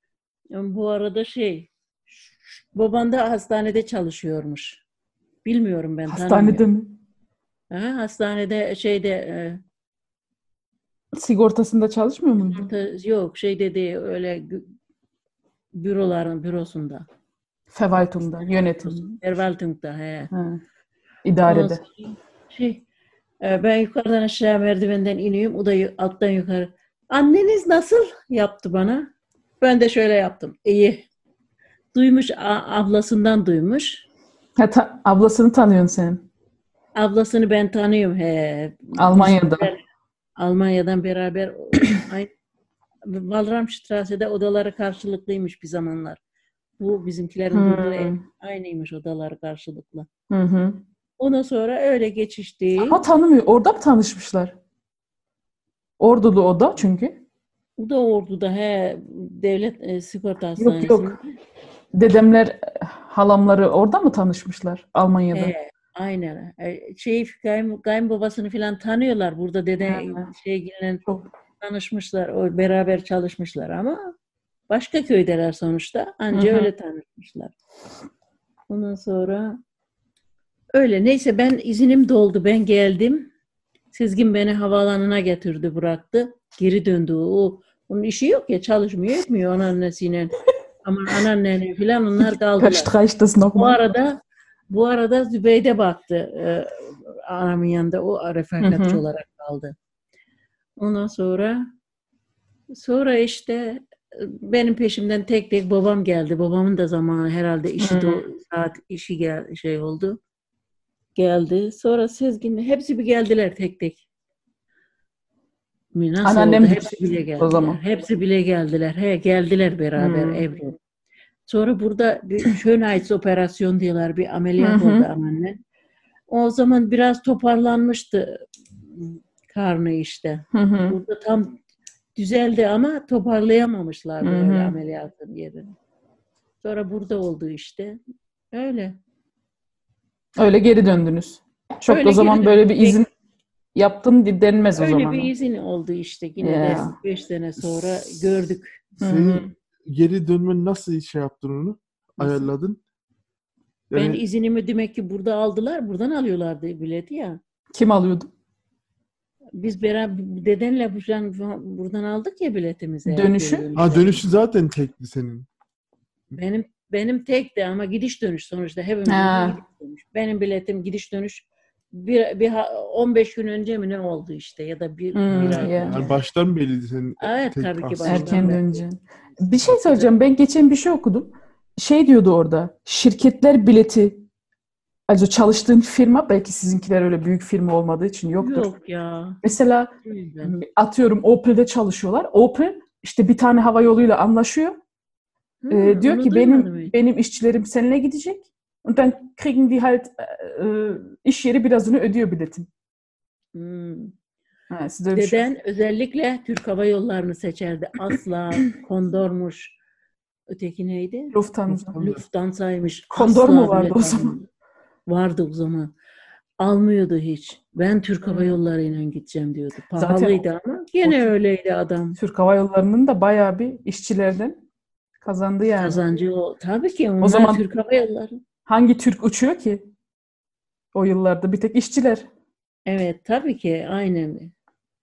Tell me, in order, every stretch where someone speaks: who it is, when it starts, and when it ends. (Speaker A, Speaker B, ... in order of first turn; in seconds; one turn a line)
Speaker A: 0.5-4.8
Speaker A: 5.4-6.6
Speaker B: 6.1-7.0
Speaker A: 7.7-9.6
Speaker B: 11.1-12.7
Speaker A: 12.5-14.7
Speaker A: 15.8-17.1
Speaker B: 17.7-19.2
Speaker A: 18.2-20.3
Speaker B: 20.3-20.6
Speaker B: 21.2-21.8
Speaker A: 21.4-22.8
Speaker A: 23.4-31.0
Speaker A: 31.9-34.0
Speaker B: 34.6-36.2
Speaker A: 36.9-39.8
Speaker B: 39.0-39.7
Speaker A: 40.4-42.3
Speaker A: 43.0-46.2
Speaker A: 46.8-50.1
Speaker B: 47.5-48.2
Speaker B: 50.3-50.8
Speaker A: 51.2-53.0
Speaker B: 52.9-54.5
Speaker B: 56.0-57.2
Speaker A: 57.8-61.3
Speaker B: 60.6-61.2
Speaker B: 61.9-65.5
Speaker A: 65.3-71.0
Speaker B: 69.8-70.3
Speaker A: 71.6-74.1
Speaker A: 74.7-77.5
Speaker B: 76.3-76.7
Speaker A: 78.7-79.6
Speaker A: 80.7-83.3
Speaker A: 83.9-90.3
Speaker A: 90.8-92.9
Speaker B: 92.2-93.8
Speaker A: 93.5-99.7
Speaker B: 98.6-99.0
Speaker A: 100.8-101.6
Speaker A: 102.7-110.2
Speaker B: 107.8-108.2
Speaker A: 111.1-114.0
Speaker A: 115.9-120.8
Speaker B: 116.2-117.8
Speaker B: 120.0-120.4
Speaker A: 121.5-125.6
Speaker B: 124.6-125.1
Speaker A: 126.3-131.6
Speaker B: 130.5-131.0
Speaker A: 132.2-135.7
Speaker B: 134.2-134.8
Speaker A: 136.6-138.0
Speaker A: 138.5-139.0
Speaker B: 140.4-143.1
Speaker A: 141.9-143.0
Speaker B: 143.7-145.3
Speaker A: 144.8-148.8
Speaker B: 146.4-146.9
Speaker C: 147.6-148.1
Speaker C: 149.0-152.8
Speaker B: 149.0-149.5
Speaker A: 152.2-152.5
Speaker C: 153.9-154.2
Speaker A: 153.9-157.4
Speaker B: 157.7-158.3
Speaker A: 159.6-164.3
Speaker B: 163.1-163.7
Speaker C: 163.7-165.5
Speaker A: 166.3-176.2
Speaker B: 169.1-169.6
Speaker B: 175.1-176.0
Speaker C: 175.3-178.4
Speaker A: 177.2-178.8
Speaker B: 178.0-184.2
Speaker A: 179.4-180.1
Speaker B: 185.1-188.7
Speaker A: 188.4-189.4
Speaker B: 189.4-189.9
Speaker A: 190.0-190.5
Speaker B: 190.4-194.8
Speaker A: 195.6-196.9
Speaker B: 195.7-202.7
Speaker A: 203.5-204.1
Speaker B: 204.7-205.4
Speaker A: 205.1-209.8
Speaker A: 210.5-211.3
Speaker B: 211.3-212.0
Speaker C: 211.7-212.2
Speaker A: 212.0-214.5
Speaker B: 213.1-214.3
Speaker A: 215.1-215.9
Speaker A: 216.6-222.2
Speaker B: 218.2-218.6
Speaker B: 219.9-220.4
Speaker B: 221.0-221.3
Speaker B: 222.2-224.6
Speaker B: 225.2-226.0
Speaker A: 225.8-228.4
Speaker B: 227.2-227.6
Speaker B: 228.7-229.8
Speaker B: 230.9-232.2
Speaker A: 232.9-234.5